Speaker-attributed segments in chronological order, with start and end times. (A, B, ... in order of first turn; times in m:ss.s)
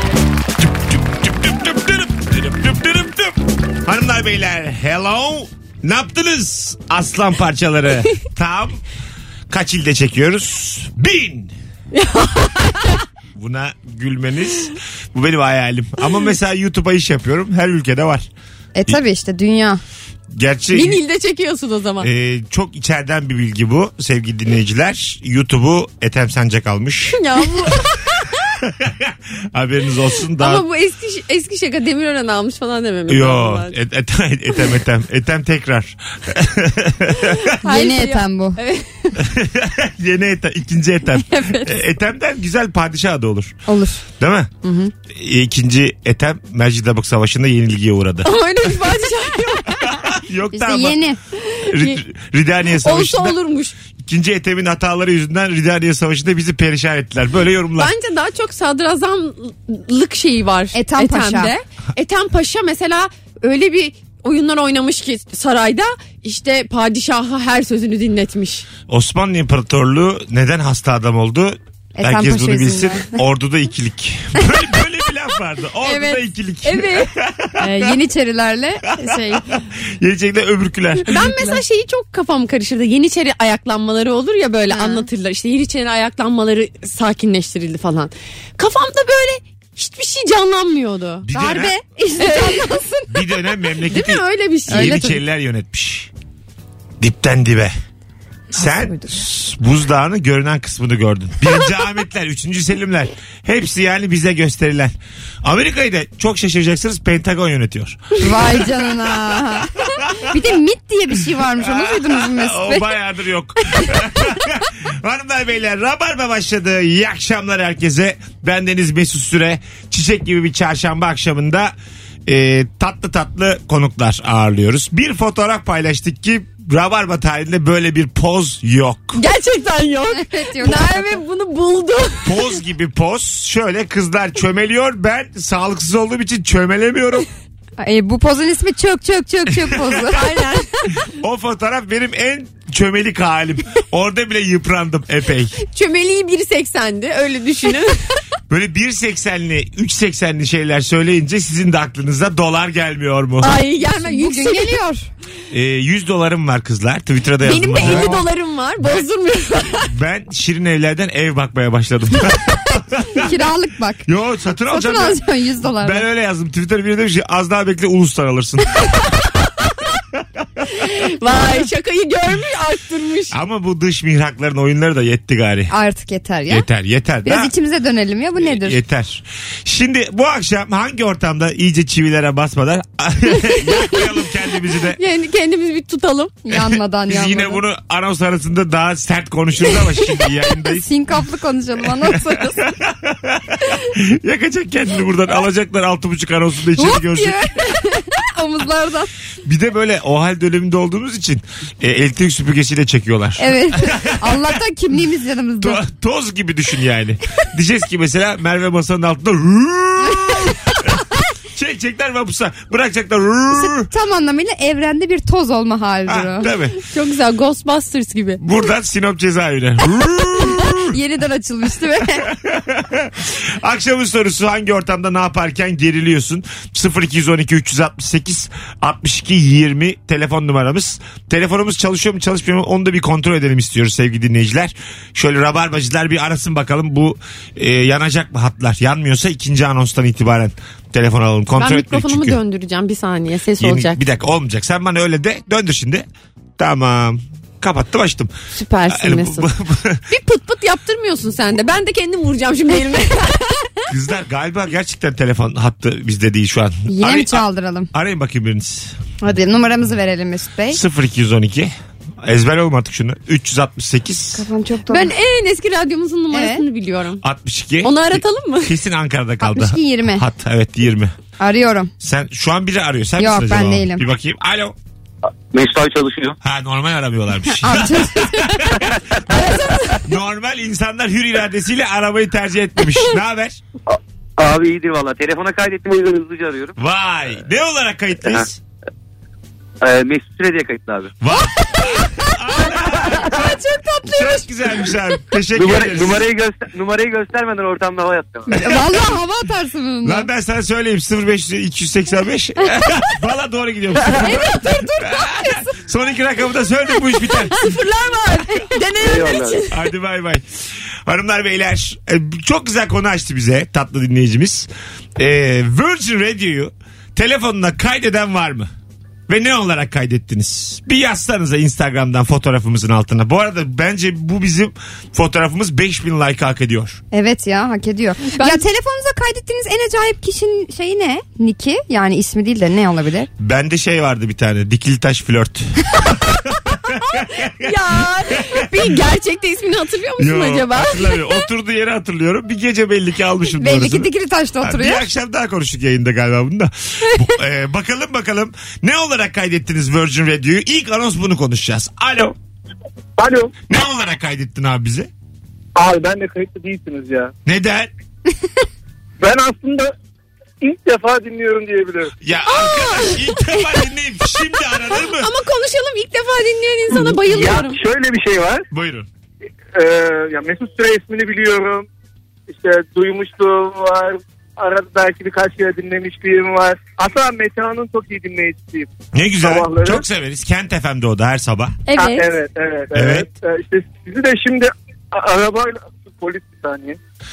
0:00.9-0:08.8 A
0:09.5-0:11.5 A
0:11.9-0:13.0 B
0:13.4-0:18.3 A
0:18.7-0:19.8 C
0:20.3-0:21.0 A
0:20.7-0:22.1 B
0:22.0-0:27.8 A
0:27.1-0:28.4 B
0:28.6-0:30.6 A
0:30.4-0:33.7 B
0:33.1-0:37.4 A
0:37.4-0:39.2 B
0:37.6-0:38.6 C
0:39.2-0:43.6 A
0:41.3-0:41.7 B
0:43.7-0:44.0 C
0:44.2-0:44.5 A
0:44.6-0:44.9 C
0:45.1-0:48.3 A
0:48.2-0:50.0 B
0:49.8-0:51.0 A
0:50.5-0:51.2 C
0:51.6-0:52.0 B
0:51.7-0:53.4 A
0:52.8-0:53.7 B
0:54.0-0:57.9 A
0:57.8-1:08.7 B
1:00.7-1:01.5 C
1:08.9-1:17.9 A
1:11.9-1:13.2 C
1:16.6-1:17.1 B
1:17.6-1:18.9 C
1:18.9-1:21.2 A
1:19.0-1:19.4 B
1:21.0-1:31.3 B
1:21.3-1:21.6 C
1:24.7-1:25.0 C
1:31.2-1:31.7 A
1:31.3-1:33.4 C
1:32.2-1:32.8 B
1:33.1-1:36.1 A
1:33.9-1:35.1 B
1:34.7-1:35.2 C
1:37.0-1:37.7 A
1:38.5-1:48.9 A
1:38.8-1:39.1 C
1:48.2-1:52.9 C
1:50.0-1:50.4 A
1:51.3-2:01.7 A
2:02.2-2:09.2 A
2:09.2-2:12.4 B
2:10.1-2:11.2 C
2:12.2-2:17.3 A
2:17.8-2:20.2 C
2:19.6-2:20.0 A
2:20.1-2:20.9 B
2:21.1-2:25.6 A
2:25.6-2:28.0 B
2:28.5-2:33.6 A
2:33.4-2:34.8 B
2:33.8-2:35.1 C
2:35.5-2:38.2 A
2:37.4-2:39.9 B
2:37.8-2:38.2 C
2:39.8-2:43.3 A
2:43.1-2:44.0 C
2:44.0-2:49.0 A
2:44.7-2:46.0 C
2:50.1-2:50.8 A
2:50.8-2:53.3 B
2:53.3-2:55.7 A
2:55.7-2:56.6 C
2:56.5-2:57.5 A
2:57.2-2:58.8 C
2:58.4-3:05.0 A
3:05.0-3:06.4 B
3:06.4-3:07.6 C
3:06.5-3:10.9 A
3:10.7-3:12.6 C
3:11.8-3:17.5 A
3:16.8-3:19.1 C
3:19.4-3:24.6 A
3:23.4-3:25.8 C
3:25.6-3:33.9 A
3:33.6-3:36.5 C
3:36.1-3:36.8 A
3:36.9-3:38.4 B
3:38.4-3:41.0 A
3:40.8-3:42.3 C
3:42.1-4:02.4 A
4:01.6-4:04.0 B
4:03.6-4:06.0 A
4:06.6-4:08.3 A
4:08.5-4:09.5 B
4:08.9-4:10.0 A
4:10.1-4:13.8 B
4:13.9-4:19.0 A
4:16.9-4:17.9 C
4:19.2-4:20.8 C
4:20.7-4:24.4 A
4:24.3-4:25.1 C
4:24.9-4:27.2 B
4:26.3-4:26.6 C
4:27.2-4:31.1 A
4:27.8-4:28.8 B
4:29.4-4:30.2 C
4:31.4-4:31.9 C
4:32.0-4:34.8 A
4:33.2-4:34.0 C
4:35.5-4:36.4 D
4:36.4-4:39.4 A
4:37.6-4:38.7 C
4:39.3-4:40.0 B
4:40.0-4:43.6 A
4:44.4-4:46.7 D
4:46.8-4:48.6 A
4:49.8-4:51.1 D
4:51.2-4:56.2 A
4:51.6-4:54.9 C
4:55.5-4:58.6 D
4:58.5-5:00.3 C
4:58.5-4:59.2 A
5:00.0-5:07.6 A
5:04.1-5:05.7 C
5:04.2-5:04.5 B
5:07.5-5:09.7 B
5:08.7-5:09.5 C
5:09.2-5:09.5 D
5:09.7-5:10.4 A
5:11.1-5:18.7 A
5:19.3-5:27.0 A
5:27.1-5:33.3 C
5:28.3-5:28.6 B
5:33.4-5:39.0 A
5:37.5-5:41.4 B
5:40.2-5:44.1 A
5:43.5-5:45.1 C
5:44.6-5:52.4 A
5:53.2-5:53.5 E
5:53.7-5:55.1 A
5:55.7-5:57.3 E
5:57.4-5:57.9 A
5:59.2-5:59.9 E
6:00.6-6:02.1 E
6:02.2-6:05.3 A
6:02.5-6:03.3 B
6:05.0-6:07.8 B
6:07.2-6:08.6 E
6:08.7-6:09.1 A
6:09.7-6:11.9 E
6:12.5-6:20.0 E
6:19.1-6:21.8 A
6:21.9-6:22.3 B
6:22.0-6:27.0 E
6:22.9-6:23.2 A